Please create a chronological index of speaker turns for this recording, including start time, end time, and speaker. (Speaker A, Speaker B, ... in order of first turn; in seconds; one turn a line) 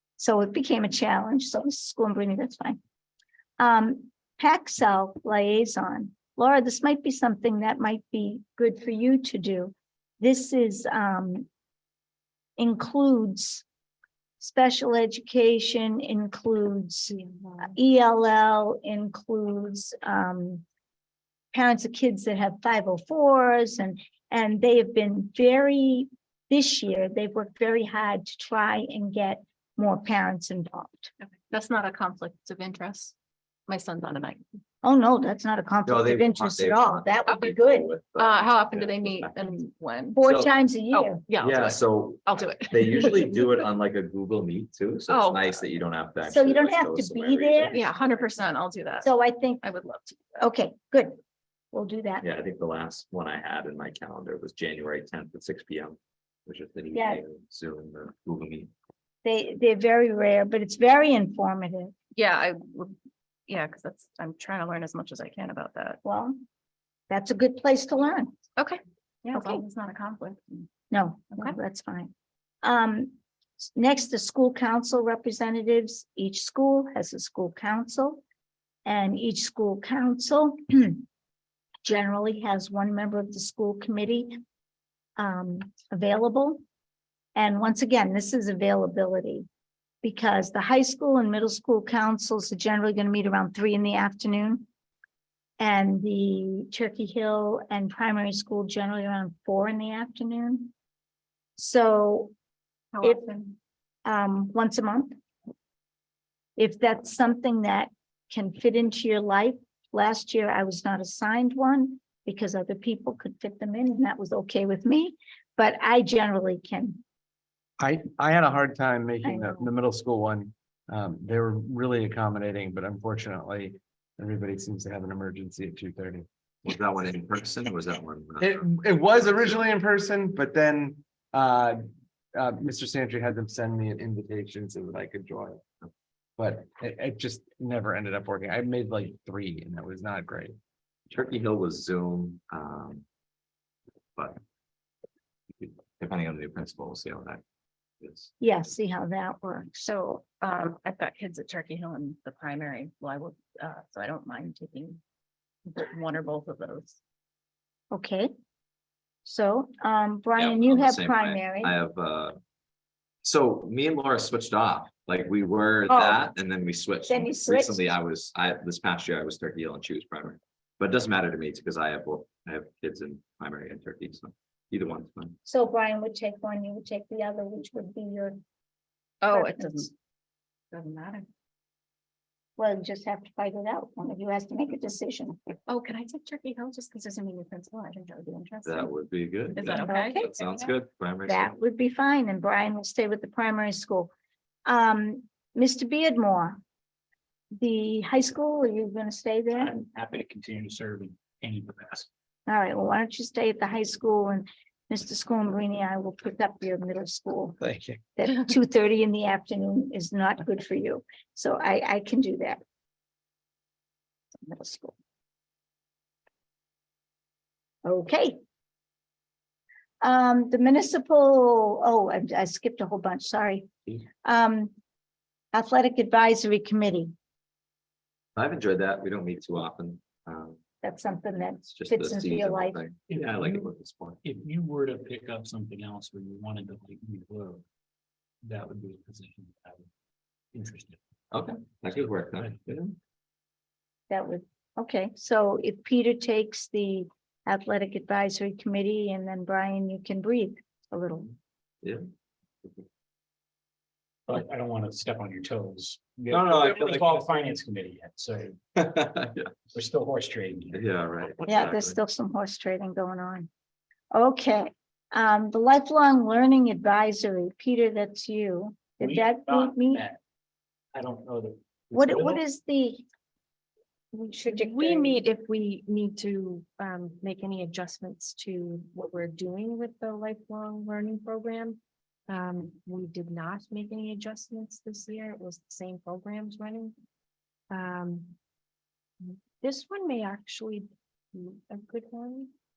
Speaker A: 0.2-2.8
Speaker A: 3.6-11.5
Speaker A: 12.6-13.6
Speaker A: 14.4-20.6
Speaker B: 17.1-17.7
Speaker A: 21.5-31.1
Speaker C: 31.2-33.1
Speaker C: 33.7-34.4
Speaker A: 34.8-37.9
Speaker D: 35.8-39.6
Speaker C: 38.1-40.2
Speaker A: 40.1-41.2
Speaker D: 40.2-40.5
Speaker C: 40.9-43.5
Speaker D: 41.4-47.9
Speaker C: 45.1-45.5
Speaker A: 46.2-47.7
Speaker C: 47.7-49.1
Speaker A: 49.0-49.6
Speaker C: 49.6-50.2
Speaker A: 50.4-51.2
Speaker A: 51.7-52.2
Speaker D: 52.2-58.7
Speaker A: 56.9-57.2
Speaker A: 59.2-61.9
Speaker C: 62.1-62.9
Speaker C: 63.5-66.0
Speaker A: 66.0-66.4
Speaker A: 67.1-68.3
Speaker C: 68.6-70.7
Speaker A: 69.3-69.6
Speaker A: 70.9-72.1
Speaker A: 72.6-78.2
Speaker A: 78.8-81.0
Speaker A: 81.8-84.4
Speaker A: 85.2-86.6
Speaker A: 87.3-89.5
Speaker A: 90.0-94.7
Speaker A: 95.6-100.7
Speaker A: 101.6-102.3
Speaker C: 102.9-103.5
Speaker A: 103.0-103.3
Speaker A: 104.0-105.2
Speaker A: 106.6-117.0
Speaker E: 117.8-126.2
Speaker A: 119.2-119.7
Speaker D: 126.6-129.6
Speaker E: 128.4-131.8
Speaker E: 132.3-135.6
Speaker E: 136.4-140.6
Speaker D: 141.1-143.0
Speaker D: 145.6-147.4
Speaker D: 148.0-148.3
Speaker A: 148.4-149.8
Speaker C: 149.8-155.0
Speaker C: 155.7-157.0
Speaker A: 157.9-158.3
Speaker A: 159.2-161.7
Speaker D: 160.4-162.4
Speaker D: 163.2-175.4
Speaker A: 165.9-166.3
Speaker A: 167.0-167.9
Speaker A: 175.4-178.4
Speaker C: 179.2-179.9
Speaker A: 179.3-179.9
Speaker C: 180.7-181.3
Speaker A: 182.6-185.4
Speaker C: 185.7-188.9
Speaker D: 188.6-191.6
Speaker C: 189.5-190.7
Speaker A: 189.7-190.2
Speaker A: 191.2-194.1
Speaker A: 194.7-196.6
Speaker A: 197.5-199.7
Speaker F: 199.5-202.1
Speaker A: 202.5-207.6
Speaker E: 207.6-208.0
Speaker A: 208.2-212.6
Speaker A: 214.4-214.9
Speaker A: 217.8-218.4
Speaker A: 220.0-223.7
Speaker A: 224.2-224.7
Speaker A: 225.5-227.1
Speaker D: 228.3-230.6
Speaker A: 230.8-232.9
Speaker D: 231.7-234.2
Speaker F: 233.1-233.7
Speaker F: 234.2-237.6
Speaker F: 238.4-239.9
Speaker F: 240.5-241.0
Speaker D: 241.3-242.9
Speaker F: 242.3-242.6
Speaker A: 244.1-251.3
Speaker D: 251.8-252.1
Speaker F: 254.3-258.6
Speaker D: 256.3-257.2
Speaker D: 258.8-259.5
Speaker F: 259.7-260.9
Speaker D: 260.7-262.0
Speaker A: 261.4-263.5
Speaker A: 264.1-270.0
Speaker F: 269.0-270.2
Speaker F: 270.9-272.4
Speaker A: 271.9-273.0
Speaker B: 274.1-286.9
Speaker A: 274.4-275.2
Speaker B: 287.7-288.3
Speaker B: 289.2-292.5